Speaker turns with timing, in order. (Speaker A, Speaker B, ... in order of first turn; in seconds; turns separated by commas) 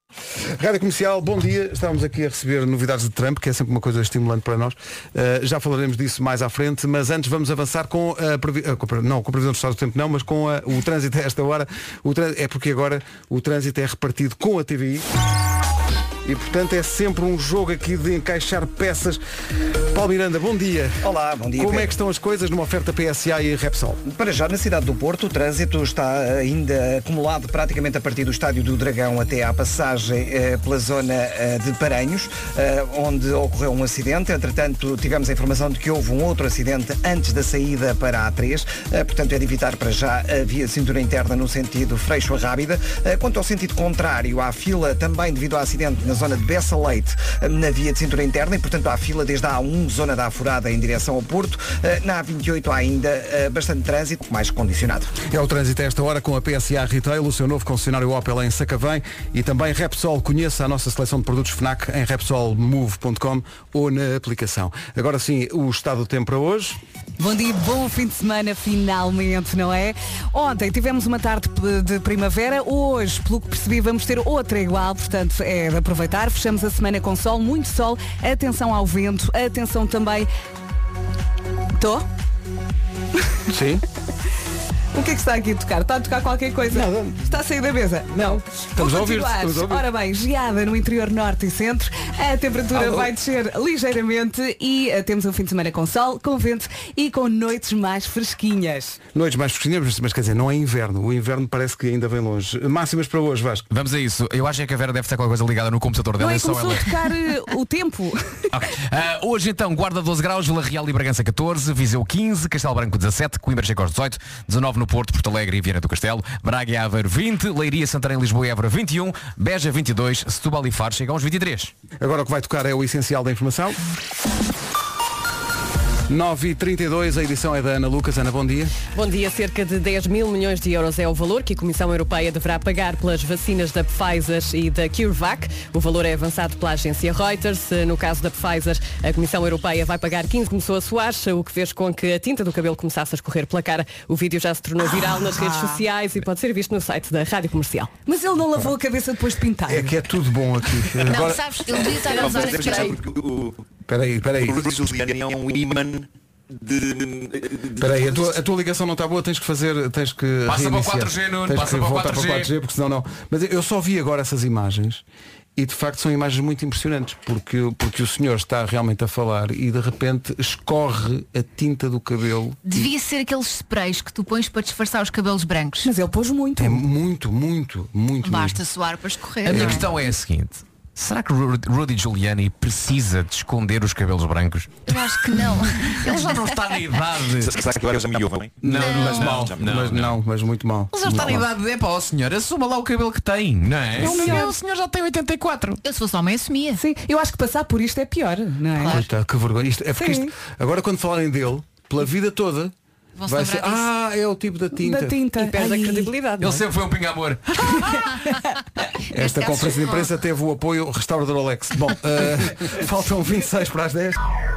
Speaker A: 0.4-15.1, Speaker A: 16.2-19.2, Speaker A: 19.9-21.0, Speaker B: 21.0-21.9, Speaker A: 21.6-24.0, Speaker B: 24.1-55.2, Speaker A: 55.2-66.8, Speaker C: 67.2-80.3, Speaker C: 81.8-82.1, Speaker A: 83.5-83.8, Speaker C: 84.9-99.0, Speaker A: 86.7-87.3, Speaker A: 88.2-89.8, Speaker A: 92.7-93.1, Speaker A: 99.1-103.7, Speaker D: 103.7-107.0, Speaker C: 106.2-108.4, Speaker D: 108.5-121.7, Speaker A: 122.0-123.8, Speaker A: 126.1-128.8, Speaker E: 128.9-147.9, Speaker C: 145.3-145.8, Speaker C: 148.1-149.9, Speaker A: 149.7-151.5, Speaker F: 151.0-153.0, Speaker G: 151.8-153.6, Speaker A: 153.9-154.8, Speaker G: 154.4-158.3, Speaker A: 157.8-165.0, Speaker D: 160.5-162.5, Speaker A: 165.6-172.9, Speaker F: 172.7-175.9, Speaker C: 175.8-176.8, Speaker A: 176.6-178.6, Speaker F: 178.2-179.9, Speaker D: 179.4-184.9, Speaker A: 179.5-179.8, Speaker F: 184.9-186.6, Speaker D: 185.8-187.6, Speaker G: 187.4-189.9, Speaker A: 188.6-191.5, Speaker D: 188.6-190.2, Speaker F: 188.8-189.3, Speaker D: 190.9-195.8, Speaker C: 194.0-194.5, Speaker F: 194.1-194.5, Speaker F: 195.8-196.8, Speaker C: 196.8-199.0, Speaker F: 198.8-199.1, Speaker A: 198.8-202.7, Speaker C: 200.0-200.3, Speaker F: 203.2-203.9, Speaker A: 203.3-205.2, Speaker C: 204.8-206.2, Speaker E: 205.5-206.3, Speaker D: 206.4-207.4, Speaker A: 209.1-214.2, Speaker F: 209.7-210.0